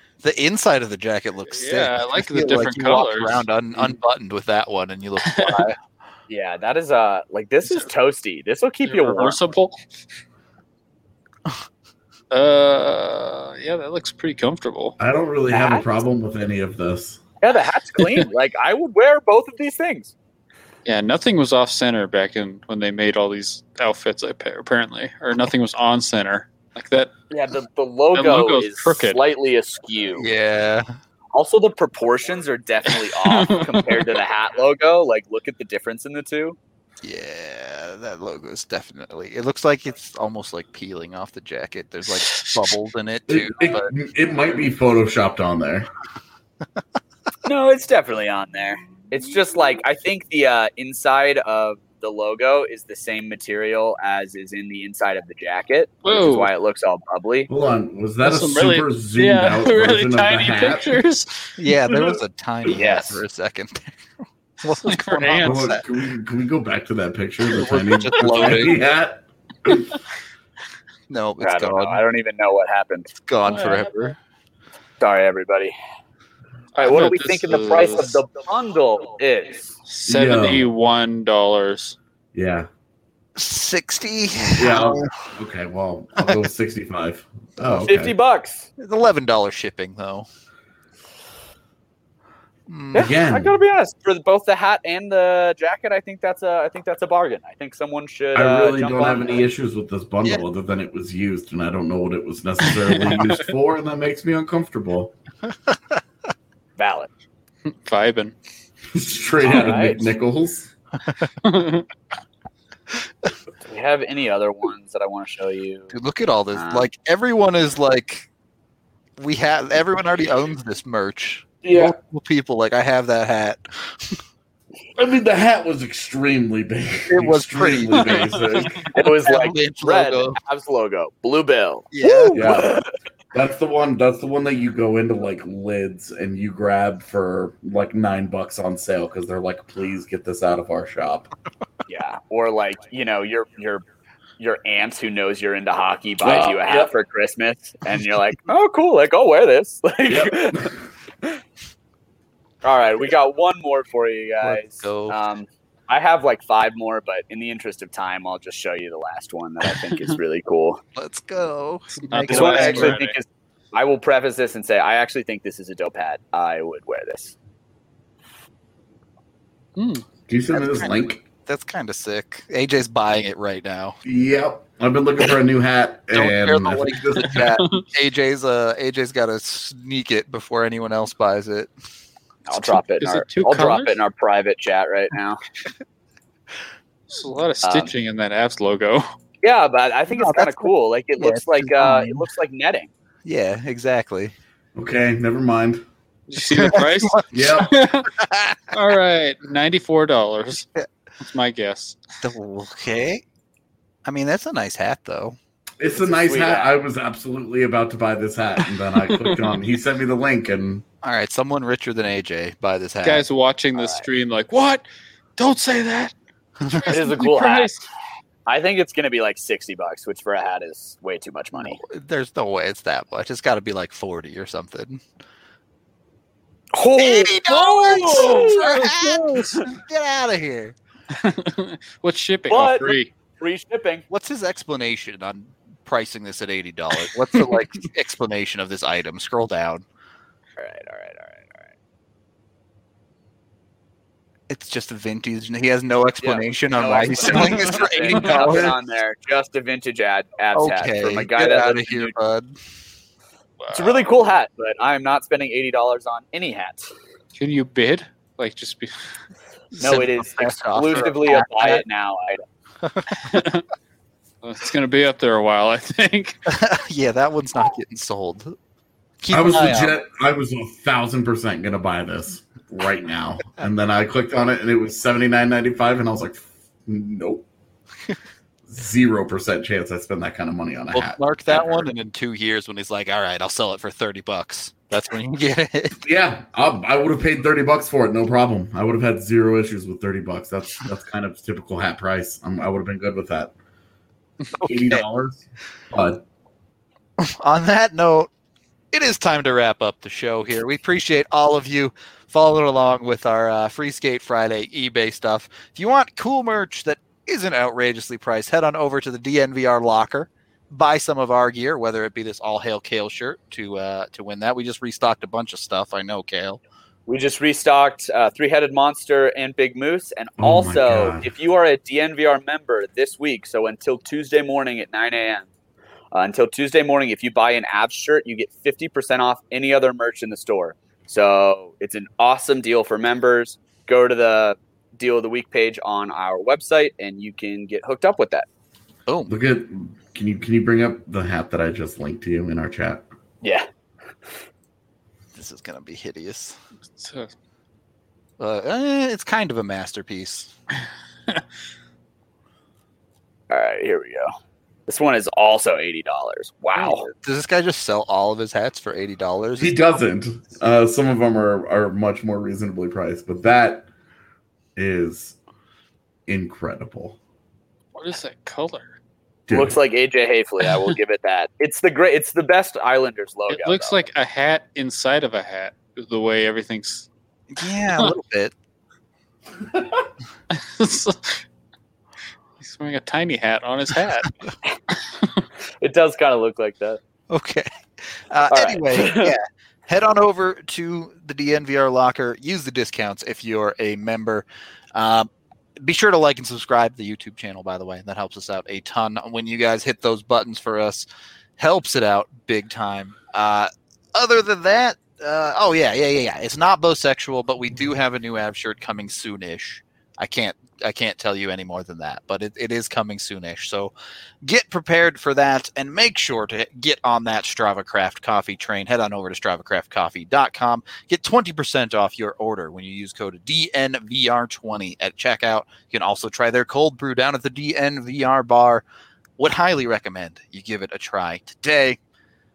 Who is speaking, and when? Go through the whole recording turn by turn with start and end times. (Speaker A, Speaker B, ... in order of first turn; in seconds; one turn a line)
Speaker A: 0.2-5.8
Speaker B: 1.5-3.5
Speaker B: 5.2-5.7
Speaker C: 6.3-9.4
Speaker B: 8.8-9.8
Speaker B: 12.3-15.0
Speaker D: 15.0-17.2
Speaker C: 15.5-15.9
Speaker C: 17.4-20.1
Speaker B: 18.0-18.3
Speaker B: 20.9-27.1
Speaker C: 27.3-30.3
Speaker B: 28.1-29.2
Speaker A: 30.2-30.9
Speaker C: 31.3-36.6
Speaker B: 32.9-34.2
Speaker A: 37.0-43.9
Speaker B: 42.2-42.7
Speaker D: 43.3-45.9
Speaker C: 47.4-57.5
Speaker B: 56.0-56.5
Speaker D: 57.5-61.0
Speaker B: 58.2-62.1
Speaker A: 61.6-65.8
Speaker C: 62.7-63.2
Speaker B: 64.7-65.7
Speaker D: 65.4-70.0
Speaker A: 67.5-68.8
Speaker B: 68.1-68.7
Speaker A: 71.1-72.0
Speaker C: 71.4-73.1
Speaker A: 73.2-74.2
Speaker C: 75.0-75.7
Speaker B: 76.8-78.2
Speaker C: 76.8-79.8
Speaker B: 79.9-82.0
Speaker D: 80.1-80.7
Speaker D: 82.3-82.7
Speaker A: 83.4-85.1
Speaker D: 84.5-88.1
Speaker C: 87.7-88.7
Speaker A: 88.8-90.3
Speaker A: 92.7-93.2
Speaker C: 92.9-99.5
Speaker D: 93.0-93.5
Speaker D: 98.3-105.1
Speaker B: 102.6-103.5
Speaker C: 106.8-107.1
Speaker B: 107.7-108.3
Speaker D: 108.9-110.7
Speaker C: 109.4-110.1
Speaker B: 111.4-111.9
Speaker C: 113.7-116.0
Speaker A: 115.9-118.3
Speaker C: 116.5-116.9
Speaker A: 119.2-124.2
Speaker D: 121.6-122.0
Speaker D: 125.0-128.9
Speaker A: 127.0-128.3
Speaker B: 128.0-128.8
Speaker C: 128.9-132.9
Speaker A: 129.0-130.4
Speaker A: 131.9-132.6
Speaker D: 132.3-132.8
Speaker D: 133.3-141.3
Speaker C: 141.9-143.8
Speaker C: 144.4-150.7
Speaker D: 146.2-146.9
Speaker D: 150.1-150.8
Speaker C: 152.6-160.8
Speaker A: 154.4-155.2
Speaker B: 159.7-160.2
Speaker A: 160.9-163.0
Speaker B: 162.1-163.2
Speaker C: 162.3-167.3
Speaker B: 169.8-170.0
Speaker D: 170.3-171.2
Speaker A: 170.5-174.0
Speaker D: 174.1-177.4
Speaker A: 176.1-181.7
Speaker B: 177.2-177.9
Speaker C: 182.5-185.4
Speaker B: 182.5-184.0
Speaker B: 187.1-189.1
Speaker C: 187.6-187.9
Speaker C: 189.4-192.9
Speaker A: 190.1-192.3
Speaker A: 193.2-194.3
Speaker D: 194.8-195.8
Speaker B: 196.3-198.2
Speaker A: 196.5-197.2
Speaker D: 197.3-197.8
Speaker A: 198.2-198.7
Speaker B: 198.7-200.7
Speaker B: 201.2-202.0
Speaker A: 202.2-203.2
Speaker A: 204.1-205.4
Speaker D: 205.8-210.8
Speaker C: 206.0-206.8
Speaker B: 208.9-209.6
Speaker A: 211.0-213.2
Speaker B: 213.0-214.9
Speaker C: 213.8-214.1
Speaker B: 215.4-216.1
Speaker A: 216.6-216.9
Speaker B: 216.7-217.9
Speaker C: 216.9-217.7
Speaker C: 218.5-221.8
Speaker A: 221.6-225.0
Speaker C: 226.7-228.9
Speaker A: 227.0-230.8
Speaker B: 228.3-229.7
Speaker B: 231.1-233.1
Speaker C: 232.5-234.1
Speaker A: 234.1-239.8
Speaker C: 240.6-241.7
Speaker A: 244.5-248.8
Speaker C: 246.2-252.2
Speaker B: 247.2-248.7
Speaker A: 250.5-252.6
Speaker B: 253.6-254.1
Speaker C: 253.7-256.9
Speaker B: 257.4-258.9
Speaker A: 259.7-261.8
Speaker C: 259.8-262.4
Speaker A: 262.8-263.1
Speaker B: 263.1-263.6
Speaker B: 264.4-266.4
Speaker A: 266.5-268.6
Speaker A: 269.2-270.0
Speaker D: 269.3-277.4
Speaker D: 278.7-281.9
Speaker A: 280.9-286.0
Speaker D: 286.0-293.5
Speaker A: 294.6-295.1
Speaker D: 294.6-296.2
Speaker A: 297.2-298.3
Speaker A: 298.9-316.6
Speaker C: 317.1-325.5
Speaker D: 320.4-321.3
Speaker C: 326.1-338.5
Speaker A: 339.1-339.3
Speaker D: 339.3-343.0
Speaker A: 345.4-346.6
Speaker B: 347.0-347.3
Speaker A: 348.4-350.5
Speaker C: 353.5-354.3
Speaker C: 354.9-357.1
Speaker A: 356.8-359.8
Speaker D: 359.6-363.9
Speaker D: 364.8-365.4
Speaker D: 366.3-367.2
Speaker B: 367.9-369.0
Speaker D: 369.5-369.8
Speaker C: 369.5-374.0
Speaker B: 370.6-370.9
Speaker B: 373.5-377.1
Speaker A: 377.5-378.5
Speaker B: 380.5-381.4
Speaker B: 382.6-384.4
Speaker C: 385.8-387.0
Speaker A: 387.3-401.1
Speaker C: 388.5-389.4
Speaker A: 401.6-413.9
Speaker A: 414.4-428.8
Speaker A: 429.4-432.0